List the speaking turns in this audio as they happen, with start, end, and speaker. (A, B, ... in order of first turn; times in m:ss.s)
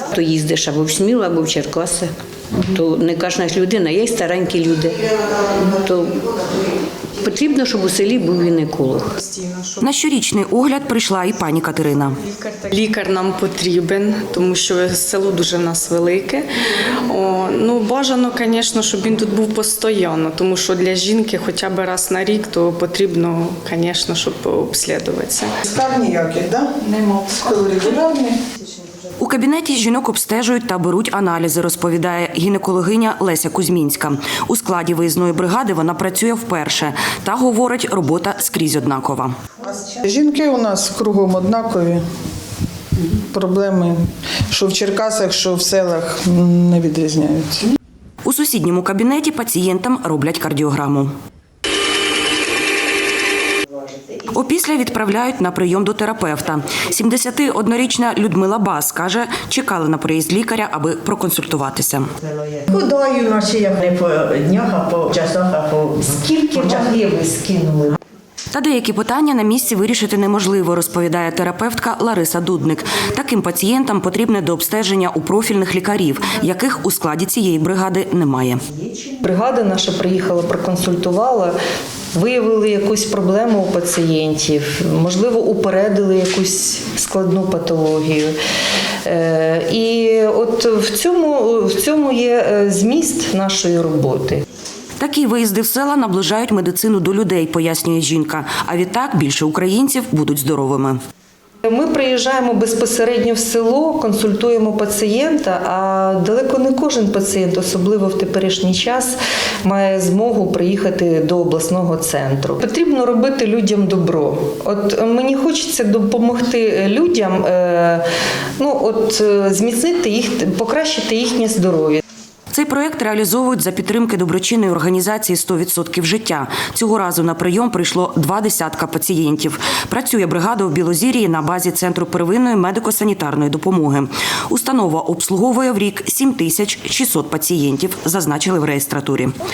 0:00.1-0:09.1 A
0:09.1-0:09.8 B
0:09.8-0:12.2 C
0:12.2-0:16.5 B
0:17.1-0:25.6 B
0:25.6-0:28.4 D
0:29.2-0:39.4 C
0:39.6-0:42.0 D
0:43.3-0:47.7 D
0:48.2-0:51.1 C
0:54.3-1:02.1 C
1:02.4-1:06.9 E
1:06.1-1:08.0 F
1:08.5-1:18.6 C
1:19.1-1:21.6 F
1:22.1-1:28.3 F
1:29.0-1:34.4 F
1:35.0-1:41.0 C
1:41.6-1:58.0 F
1:58.6-2:02.0 F
2:02.5-2:19.4 C